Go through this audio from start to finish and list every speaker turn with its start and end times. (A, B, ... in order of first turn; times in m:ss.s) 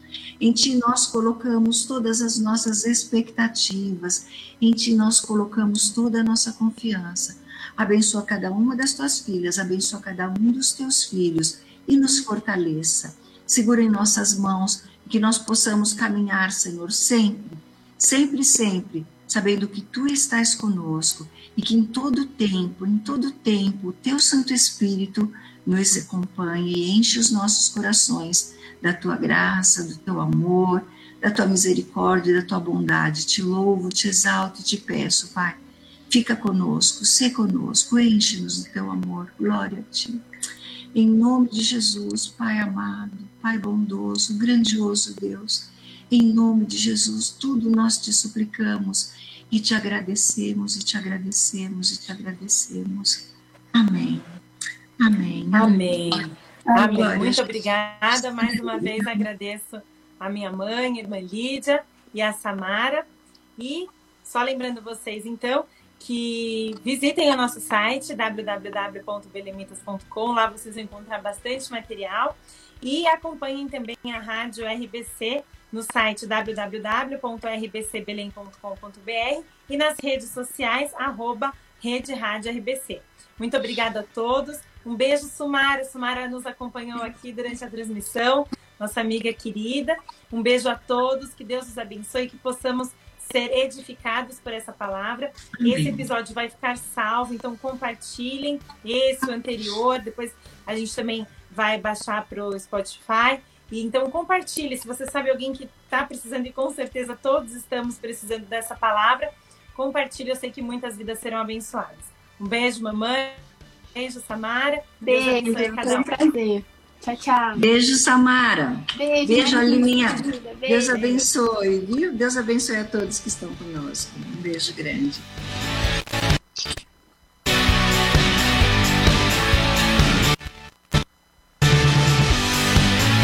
0:00.4-0:40.2 A
0:40.9-0:54.3 A
0:55.0-0:57.6 A
0:55.5-1:53.4 B
0:58.5-0:59.0 A
1:35.6-1:36.1 A
1:53.9-1:56.1 B
1:55.0-1:57.7 C
1:57.6-2:05.3 A
1:59.0-2:01.3 C